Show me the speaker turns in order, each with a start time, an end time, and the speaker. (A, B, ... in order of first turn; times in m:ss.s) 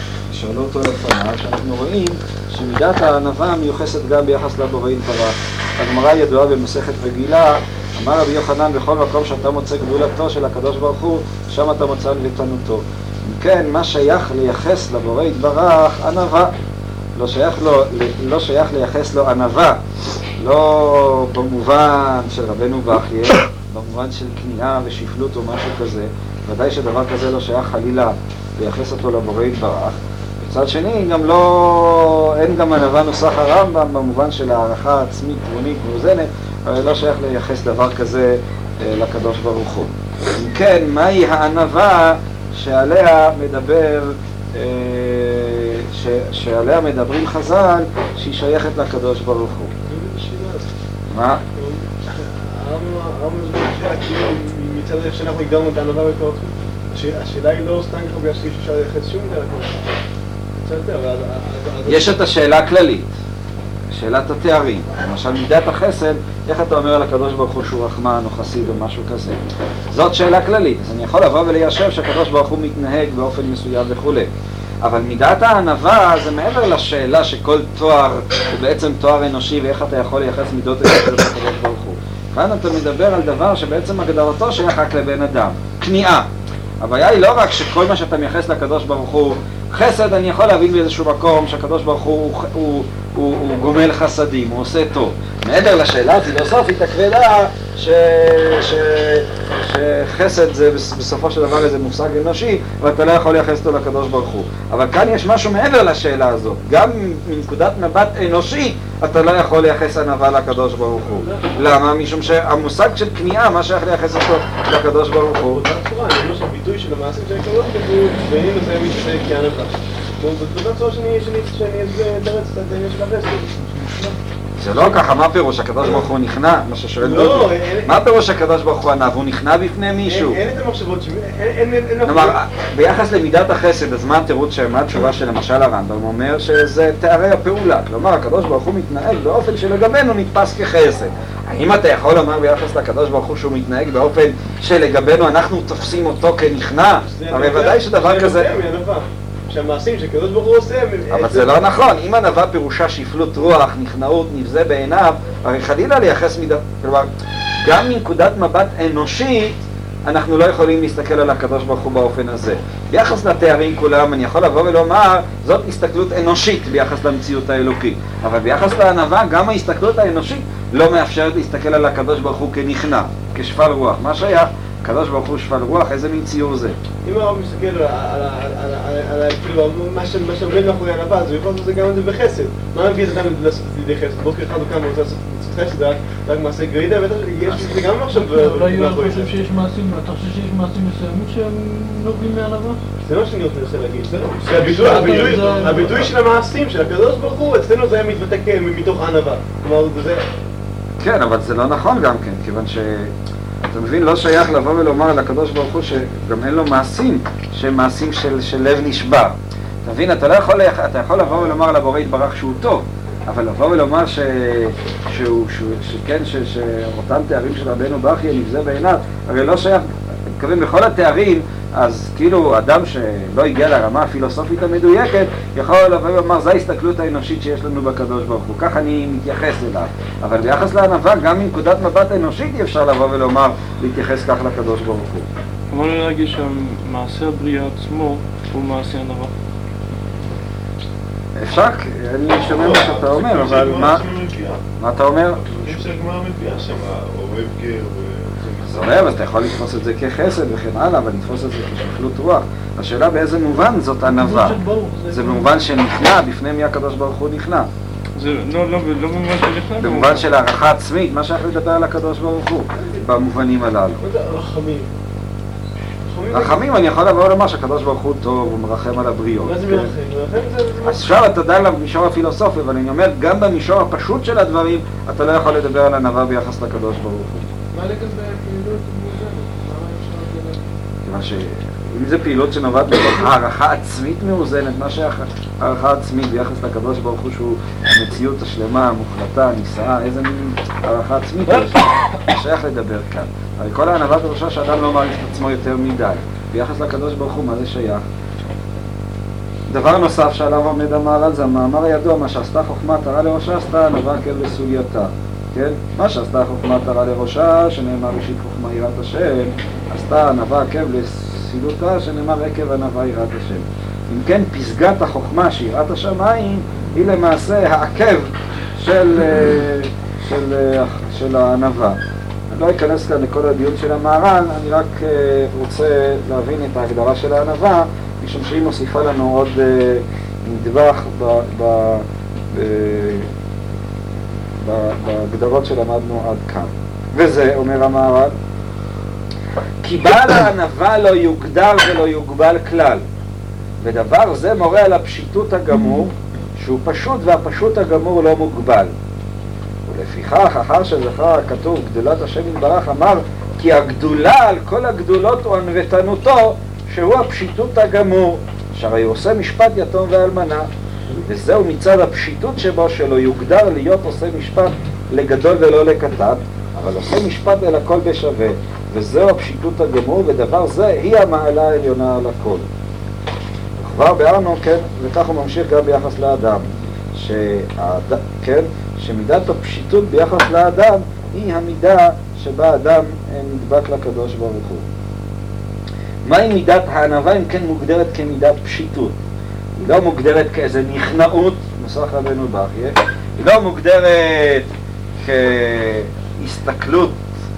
0:00.3-0:16.5 A
0:17.2-0:19.8 A
0:20.4-0:49.7 A
0:49.8-0:50.7 B
0:51.1-0:51.4 A
0:51.6-1:00.0 B
1:00.5-1:02.2 B
1:01.8-1:03.1 A
1:03.9-1:09.4 A
1:09.9-1:14.3 A
1:14.8-1:26.3 A
1:26.8-1:55.6 A
1:55.5-2:04.2 B
2:04.6-2:10.4 A
2:07.0-2:08.0 B
2:10.0-2:12.4 B
2:12.0-2:28.5 A
2:27.1-2:31.5 B
2:31.1-2:37.1 A
2:37.6-2:56.7 A
2:57.0-3:09.3 B
3:08.2-3:12.8 C
3:13.0-3:20.2 B
3:14.7-3:16.1 C
3:21.0-3:23.1 A
3:23.6-3:55.2 A
3:55.7-3:59.3 D
4:01.4-4:04.0 A
4:02.6-4:04.6 E
4:04.8-4:05.4 A
4:05.4-4:09.2 E
4:08.7-4:14.6 A
4:14.1-4:15.5 C
4:15.1-4:17.7 A
4:18.2-4:20.2 D
4:19.8-4:24.0 A
4:24.0-4:24.9 B
4:26.1-4:26.6 B
4:26.3-4:29.9 A
4:29.4-4:31.1 B
4:30.8-4:37.5 A
4:37.7-4:40.6 C
4:41.0-4:58.0 A
4:59.7-5:22.0 A
5:22.5-5:33.3 A
5:34.6-5:38.3 A
5:39.8-5:43.0 A
5:43.8-5:48.9 A
5:49.8-6:00.7 A
6:01.2-6:12.6 A
6:13.8-6:24.8 A
6:26.2-6:29.1 A
6:29.8-6:34.7 A
6:35.2-6:37.2 A